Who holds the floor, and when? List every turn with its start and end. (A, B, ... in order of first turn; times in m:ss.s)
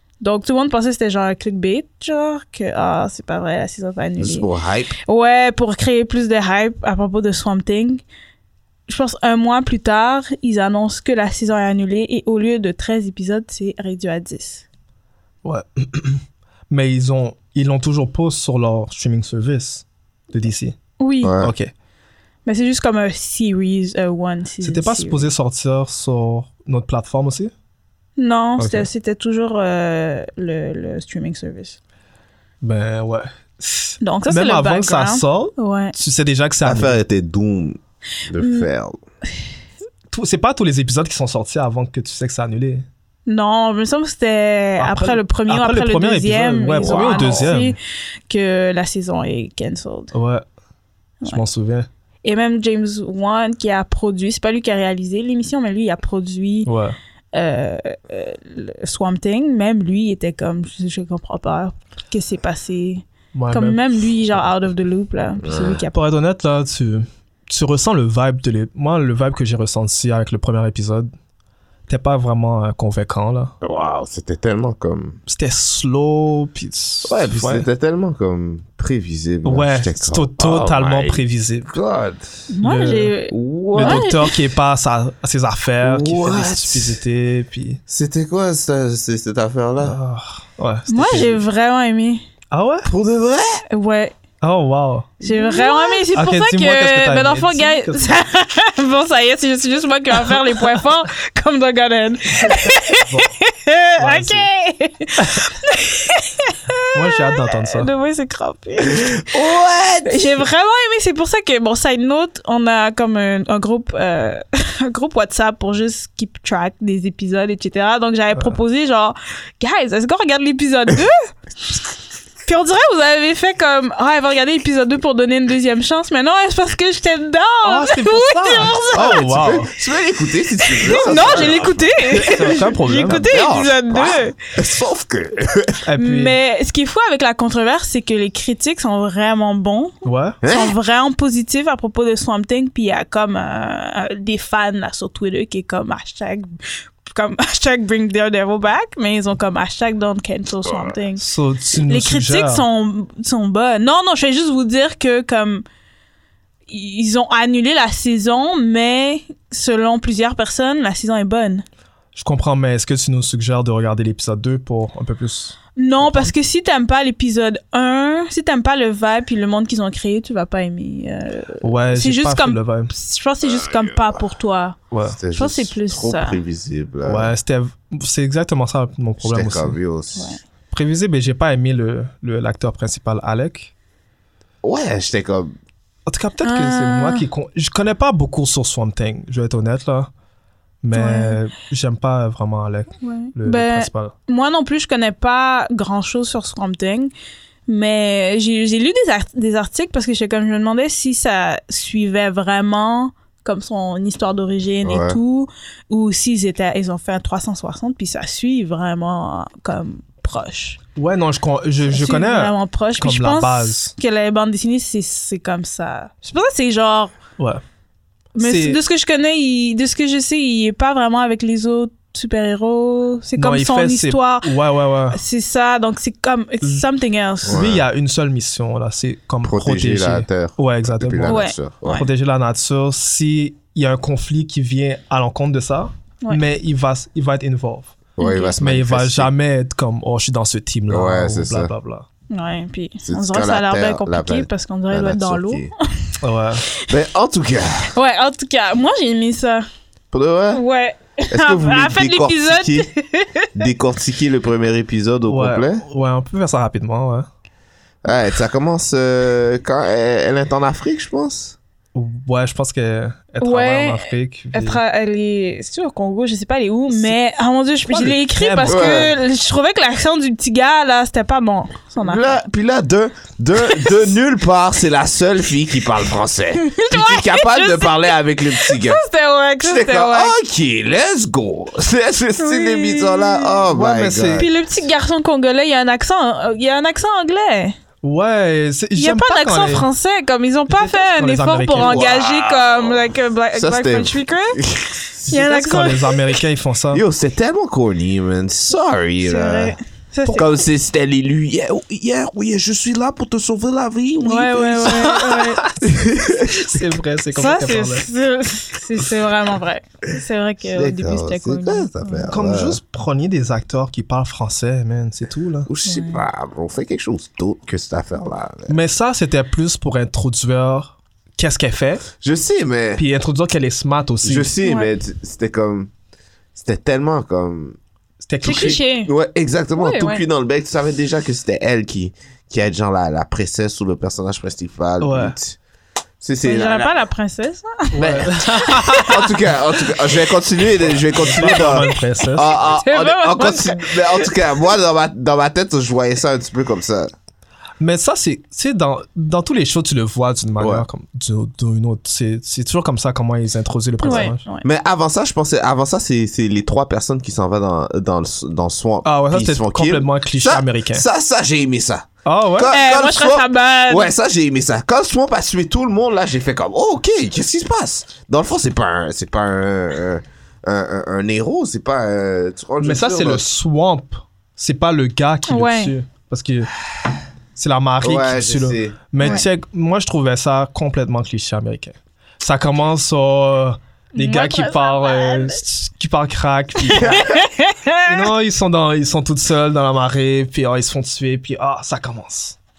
0:00.2-0:04.5 A
0:04.2-0:05.0 B
0:05.0-0:08.0 A
0:08.9-0:14.6 A
0:15.4-0:20.8 C
0:21.0-0:21.4 A
0:21.2-0:21.5 B
0:21.4-0:21.7 C
0:22.4-0:25.3 A
0:24.6-0:27.5 C
0:28.2-0:31.8 A
0:28.6-0:28.9 C
0:32.6-0:37.0 C
0:34.0-0:35.9 A
0:36.6-0:39.0 B
0:38.4-0:38.7 A
0:40.1-0:42.8 C
0:43.3-0:47.8 A
0:44.8-0:47.8 C
0:46.8-0:47.4 B
0:48.3-0:50.1 A
0:50.1-0:50.4 C
0:51.2-0:51.9 C
0:52.2-0:56.7 A
0:56.6-0:57.0 C
0:57.3-1:06.1 A
1:03.3-1:03.8 C
1:05.4-1:05.8 B
1:05.9-1:11.1 C
1:11.9-1:13.5 C
1:13.6-1:15.2 B
1:15.3-1:17.7 C
1:17.0-1:22.3 B
1:19.4-1:21.7 C
1:22.5-1:24.4 A
1:22.6-1:23.1 C
1:23.3-1:24.1 B
1:23.7-1:27.8 C
1:25.8-1:27.0 B
1:27.9-1:30.0 B
1:29.8-1:31.4 C
1:30.9-1:32.2 A
1:32.5-1:32.9 C
1:32.8-1:33.6 B
1:33.7-1:34.1 A
1:34.4-1:35.2 C
1:35.2-1:49.4 A
1:36.1-1:38.1 C
1:43.0-1:43.3 C
1:44.0-1:44.5 C
1:45.2-1:45.4 C
1:46.9-1:47.9 C
1:48.8-1:50.4 B
1:50.0-2:01.3 A
2:02.4-2:09.2 A
2:07.6-2:09.7 C
2:08.9-2:15.8 B
2:10.7-2:14.4 A
2:12.3-2:13.3 C
2:15.8-2:16.3 C
2:16.0-2:35.6 A
2:20.0-2:20.4 C
2:20.4-2:20.8 B
2:30.6-2:30.9 B
2:31.2-2:32.6 C
2:36.7-2:41.6 A
2:42.1-2:46.3 C
2:45.8-2:54.8 A
2:51.6-2:52.9 C
2:53.5-2:54.2 B
2:54.9-2:55.2 C
2:55.0-2:57.3 B
2:55.3-2:56.4 A
2:57.0-2:59.8 C
2:59.2-3:00.4 B
3:00.2-3:00.4 A
3:00.7-3:03.7 C
3:04.6-3:05.5 B
3:06.0-3:10.1 C
3:06.4-3:07.2 A
3:10.8-3:14.1 C
3:10.9-3:11.4 A
3:13.0-3:17.1 A
3:17.7-3:30.8 A
3:24.8-3:25.2 B
3:31.0-3:33.9 C
3:31.9-3:37.1 A
3:38.4-3:44.5 A
3:38.4-3:38.8 C
3:43.4-3:45.2 C
3:45.1-3:47.6 A
3:47.4-3:47.8 B
3:47.4-4:02.1 C
3:49.4-3:52.1 B
3:51.2-3:52.1 A
3:58.2-3:58.5 A
3:58.2-3:59.3 B
4:00.9-4:01.7 B
4:02.3-4:06.1 A
4:03.0-4:05.7 B
4:06.2-4:06.6 C
4:06.8-4:07.9 B
4:07.9-4:09.6 A
4:10.1-4:10.6 B
4:10.5-4:13.7 A
4:11.3-4:12.9 B
4:13.6-4:15.8 B
4:15.3-4:17.3 C
4:18.0-4:21.6 B
4:21.9-4:24.8 C
4:23.4-4:32.4 A
4:27.9-4:29.1 C
4:28.7-4:29.1 B
4:32.0-4:39.0 B
4:33.6-4:34.0 A
4:36.5-4:40.3 A
4:39.6-4:44.5 B
4:42.4-4:43.6 A
4:43.7-4:44.5 C
4:44.3-4:47.8 A
4:48.0-4:49.9 C
4:49.0-4:54.6 A
4:50.7-4:52.1 C
4:51.8-4:55.5 B
4:55.2-4:56.4 A
4:55.3-4:57.0 C
4:56.9-4:59.8 B
4:59.2-5:00.6 A
5:00.3-5:05.2 B
5:04.2-5:05.7 A
5:04.9-5:08.1 C
5:05.8-5:06.8 B
5:07.3-5:12.3 A
5:10.7-5:12.8 B
5:12.3-5:15.7 C
5:15.6-5:18.8 B
5:15.8-5:16.2 A
5:18.7-5:22.1 C
5:22.2-5:23.0 B
5:23.0-5:24.5 C
5:24.2-5:25.9 B
5:24.6-5:24.9 A
5:26.5-5:27.8 B
5:28.2-5:28.8 C
5:28.4-5:35.6 B
5:28.4-5:29.1 A
5:29.8-5:30.2 A
5:35.0-5:35.4 C
5:36.2-5:36.9 B
5:36.4-5:39.2 A
5:37.9-5:39.2 C
5:38.0-5:38.2 B
5:39.0-5:47.1 B
5:41.0-5:42.5 C
5:42.5-5:44.4 A
5:47.8-5:54.4 C
5:50.6-5:50.8 B
5:54.0-5:54.7 A
5:54.0-6:13.4 B
5:59.0-6:01.0 C
6:02.2-6:02.7 C
6:02.7-6:04.1 A
6:12.8-6:16.7 C
6:15.5-6:15.9 A
6:17.5-6:27.3 C
6:18.0-6:19.4 B
6:19.2-6:19.4 A
6:24.2-6:25.6 A
6:26.8-6:28.3 A
6:27.0-6:27.4 B
6:28.0-6:32.6 C